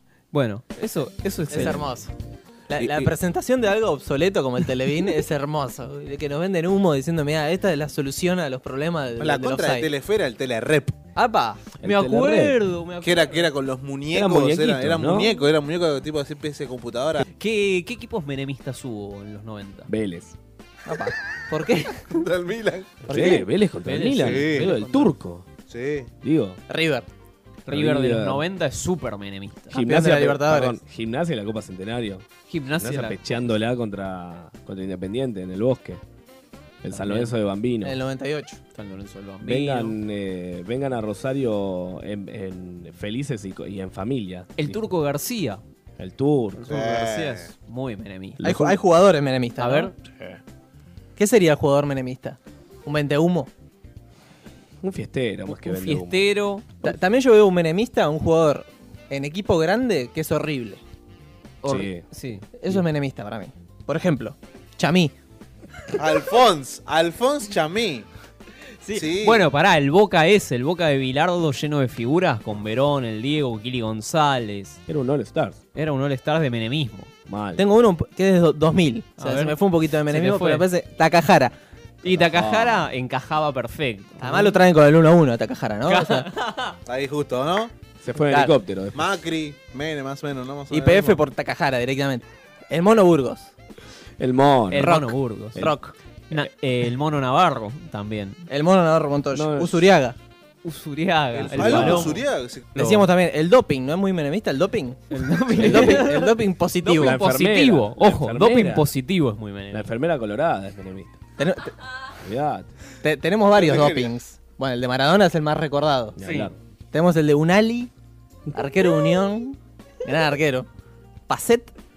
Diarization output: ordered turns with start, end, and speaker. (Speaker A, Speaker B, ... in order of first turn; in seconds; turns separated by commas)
Speaker A: 0.3-1.9, Speaker B: 1.5-2.1, Speaker B: 2.7-9.9, Speaker C: 2.8-3.1, Speaker C: 9.2-10.9, Speaker B: 11.2-11.6, Speaker A: 11.7-13.5, Speaker D: 11.8-12.6, Speaker C: 13.0-17.2, Speaker D: 14.1-15.4, Speaker A: 17.4-19.9, Speaker D: 19.9-20.4, Speaker B: 20.9-22.1, Speaker C: 22.1-23.0, Speaker D: 23.1-25.5, Speaker A: 23.9-25.1, Speaker C: 24.2-24.7, Speaker C: 25.6-26.1, Speaker D: 26.2-26.6, Speaker B: 26.7-27.1, Speaker A: 27.7-29.7, Speaker D: 27.7-28.4, Speaker B: 29.7-30.8, Speaker D: 29.7-32.3, Speaker A: 32.5-33.6, Speaker D: 32.8-36.0, Speaker D: 36.8-38.0, Speaker A: 36.9-37.3, Speaker B: 37.8-38.6, Speaker A: 38.7-40.0, Speaker D: 39.4-44.8, Speaker A: 44.6-45.6, Speaker D: 46.0-46.8, Speaker A: 46.5-48.4, Speaker C: 46.7-47.5, Speaker D: 48.4-48.8, Speaker B: 48.4-49.9, Speaker A: 49.6-49.9, Speaker B: 51.2-53.5, Speaker D: 54.8-56.3, Speaker A: 55.5-56.8, Speaker B: 56.8-60.8, Speaker A: 61.6-62.5, Speaker D: 61.7-62.0, Speaker B: 62.6-65.1, Speaker C: 66.0-68.1, Speaker A: 68.8-74.8, Speaker C: 68.9-69.5, Speaker D: 74.9-75.6, Speaker A: 75.8-77.1, Speaker D: 77.3-77.6, Speaker B: 77.6-81.5, Speaker A: 79.2-80.7, Speaker D: 82.0-82.9, Speaker A: 82.0-84.6, Speaker B: 84.2-86.3, Speaker A: 85.9-86.8, Speaker C: 86.9-87.7, Speaker D: 88.0-89.1, Speaker C: 88.9-91.2, Speaker B: 90.7-93.5, Speaker D: 94.2-95.8, Speaker A: 94.7-95.7, Speaker B: 94.8-96.0, Speaker A: 96.3-98.4, Speaker B: 98.5-100.2, Speaker D: 99.3-99.8, Speaker A: 100.6-102.2, Speaker C: 101.3-102.7, Speaker D: 101.5-102.2, Speaker B: 102.8-107.2, Speaker A: 102.8-103.0, Speaker A: 105.1-109.9, Speaker D: 105.6-106.1, Speaker D: 107.0-108.9, Speaker D: 109.7-111.2, Speaker B: 111.4-111.7, Speaker D: 112.2-112.7, Speaker B: 113.0-116.2, Speaker C: 113.6-114.1, Speaker D: 116.2-116.6, Speaker A: 116.2-116.5, Speaker B: 116.9-117.9, Speaker B: 118.5-120.7, Speaker B: 121.3-121.7